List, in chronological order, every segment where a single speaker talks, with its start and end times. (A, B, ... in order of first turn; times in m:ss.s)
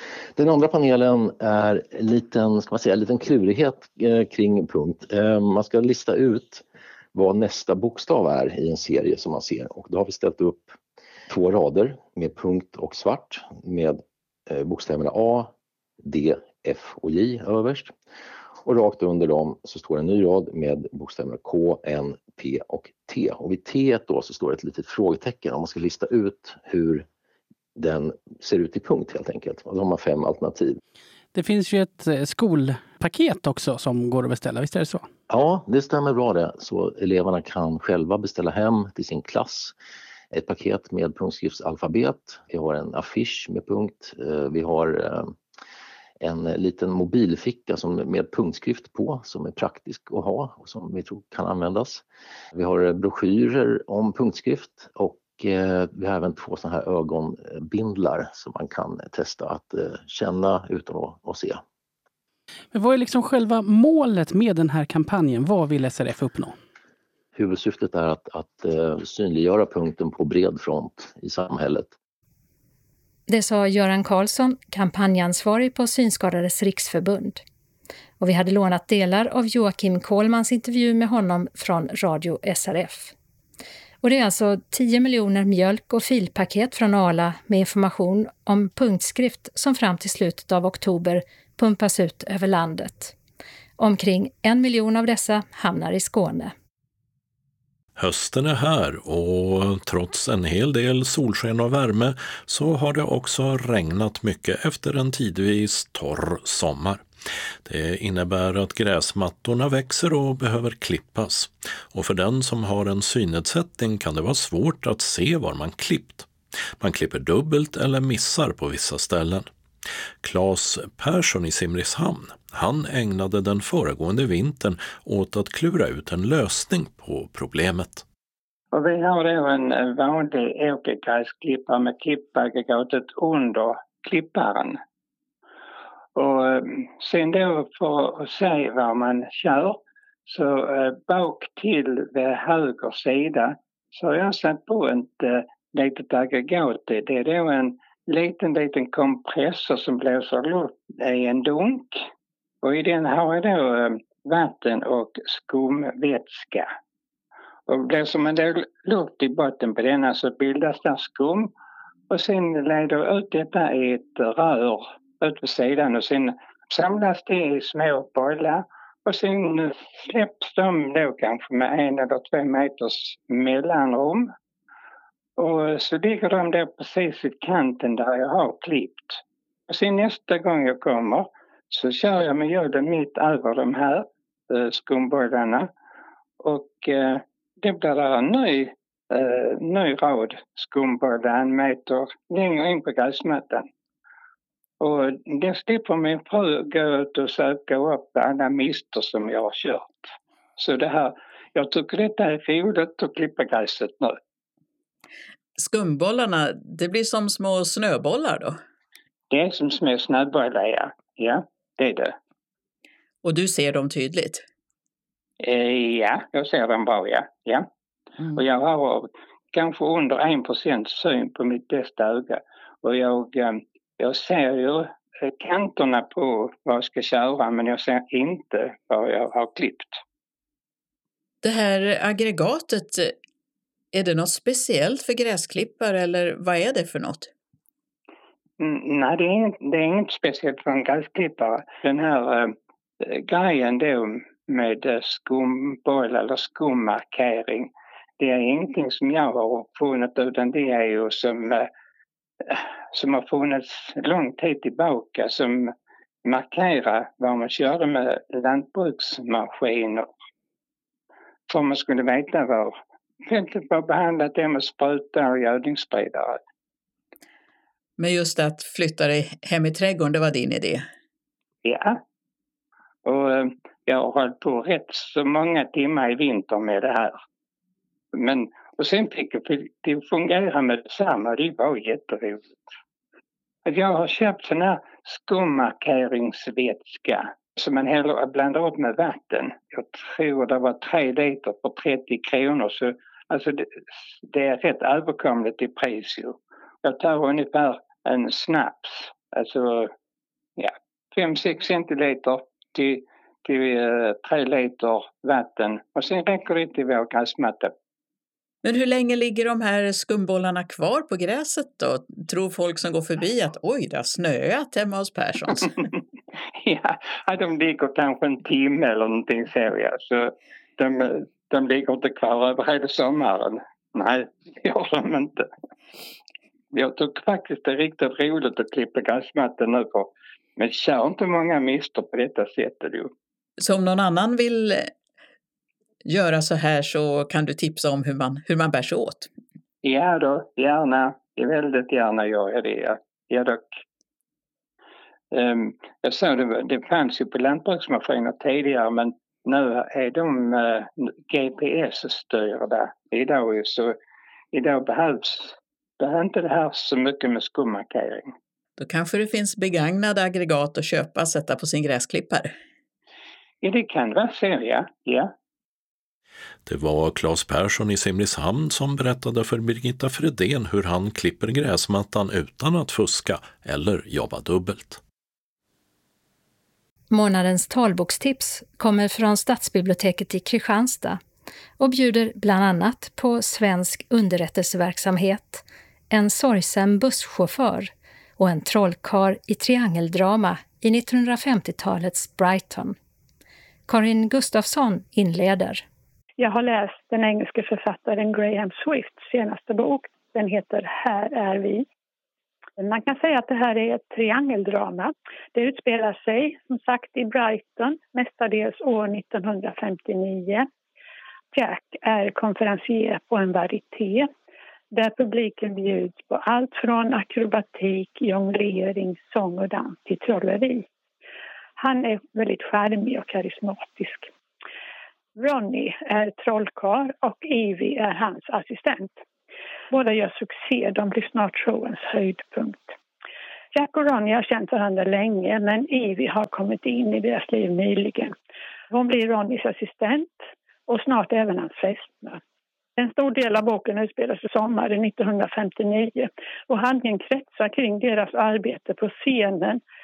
0:00.4-0:10.7 A
0:11.3-0:17.9 A
0:18.6-0:27.0 A
0:27.8-0:30.8 A
0:31.3-0:35.1 B
0:35.3-0:39.7 A
0:40.3-0:45.3 A
0:46.2-0:52.0 A
0:52.5-1:01.6 A
1:02.7-1:06.6 B
1:07.4-1:11.9 A
1:13.3-1:17.4 C
1:18.2-1:23.1 C
1:24.0-1:33.1 C
1:33.8-1:36.5 C
1:38.0-1:47.0 D
1:47.6-1:59.5 D
2:00.2-2:08.0 D
2:08.7-2:14.8 E
2:16.2-2:32.0 E
2:32.6-2:36.7 E
2:37.7-2:41.5 E
2:42.1-2:54.3 E
2:55.4-3:05.7 E
3:06.4-3:13.6 E
3:14.8-3:24.2 E
3:25.6-3:28.6 F
3:29.3-3:32.1 E
3:33.2-3:34.4 F
3:35.4-3:37.7 E
3:38.3-3:50.0 E
3:51.4-3:53.1 F
3:53.9-3:57.3 F
3:58.6-4:11.7 E
4:12.4-4:15.7 E
4:16.2-4:20.1 E
4:21.5-4:26.4 E
4:28.0-4:30.8 F
4:31.6-4:32.0 E
4:33.0-4:37.2 E
4:38.1-4:42.5 E
4:43.6-4:59.9 E
5:00.6-5:07.7 E
5:08.6-5:15.7 F
5:16.6-5:25.5 E
5:26.7-5:33.1 E
5:33.6-5:34.9 F
5:36.0-5:39.3 F
5:39.8-5:43.8 E
5:45.3-5:54.0 E
5:54.5-5:58.3 E
5:58.8-6:02.5 F
6:03.6-6:05.3 E
6:06.6-6:15.0 D
6:17.1-6:21.2 C
6:21.8-6:33.0 C
6:33.9-6:35.8 C
6:36.4-6:41.8 G
6:42.8-6:50.7 G
6:51.5-6:54.3 G
6:54.9-7:00.9 G
7:01.8-7:04.3 G
7:05.4-7:09.2 G
7:09.9-7:12.9 G
7:13.7-7:18.3 G
7:18.9-7:22.4 G
7:23.0-7:29.8 G